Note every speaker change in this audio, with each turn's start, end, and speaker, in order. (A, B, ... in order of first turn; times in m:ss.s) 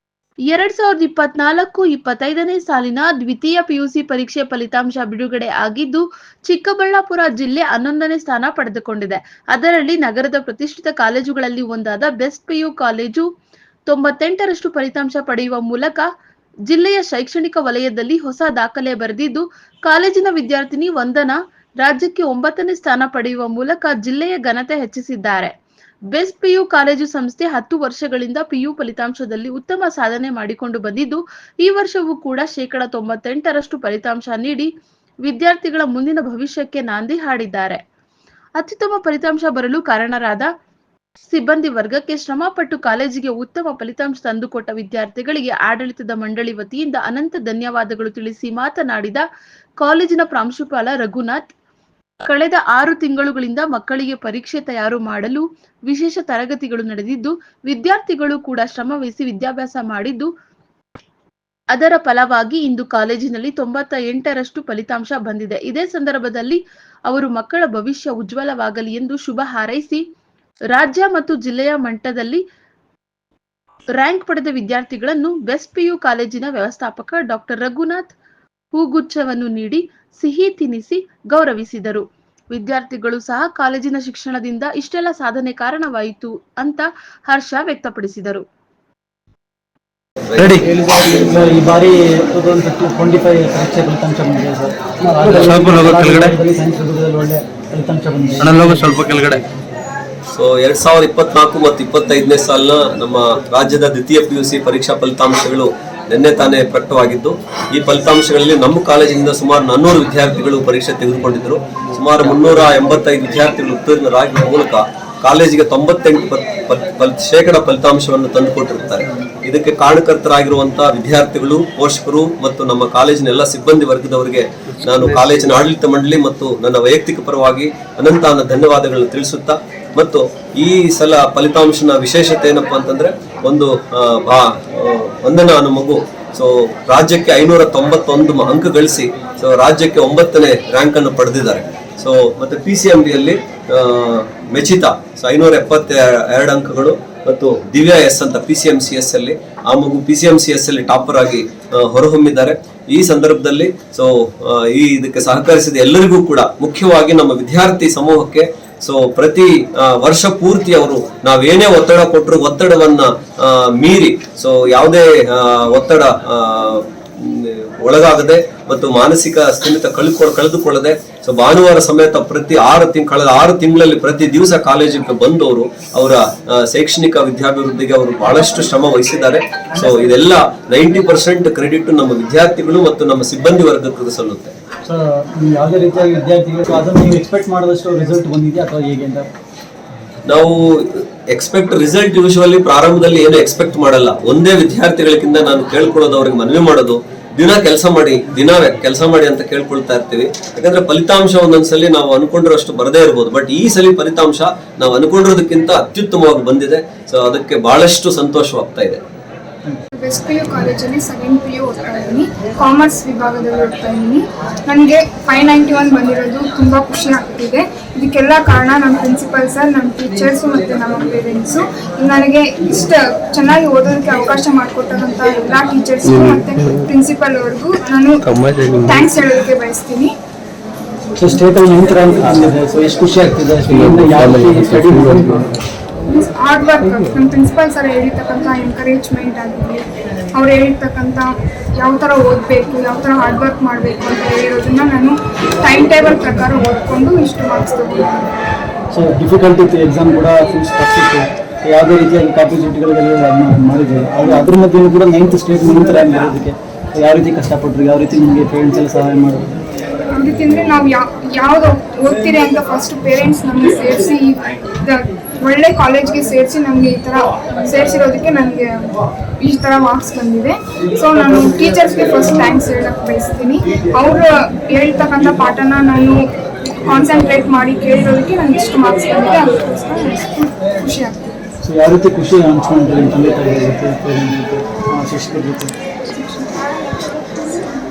0:00.5-0:13.2 A
0:13.9-0:16.0 A
0:16.7-0:25.5 A
0:26.1-0:34.7 A
0:35.2-0:37.8 A
0:38.6-0:40.5 A
0:41.3-0:49.2 A
0:49.8-0:51.5 A
0:52.2-1:00.3 A
1:01.7-1:10.0 A
1:10.7-1:12.4 A
1:14.0-1:18.1 A
1:18.7-1:28.4 A
1:30.3-1:30.7 B
1:30.3-1:39.0 C
1:35.2-1:36.4 D
1:38.4-1:39.4 D
1:40.3-3:04.5 B
3:04.8-3:09.3 C
3:10.3-3:29.0 B
3:29.9-3:48.2 E
3:46.0-3:46.9 D
3:48.2-3:49.3 D
3:48.8-3:50.1 E
3:51.2-3:55.5 C
3:53.6-3:55.5 D
3:56.1-3:59.8 E
3:56.8-3:57.2 D
4:00.4-4:01.3 E
4:01.8-4:08.3 E
4:08.9-4:19.6 C
4:14.2-4:14.5 E
4:20.2-4:36.2 E
4:36.8-4:41.5 E
4:41.6-4:45.7 C
4:46.0-4:47.6 E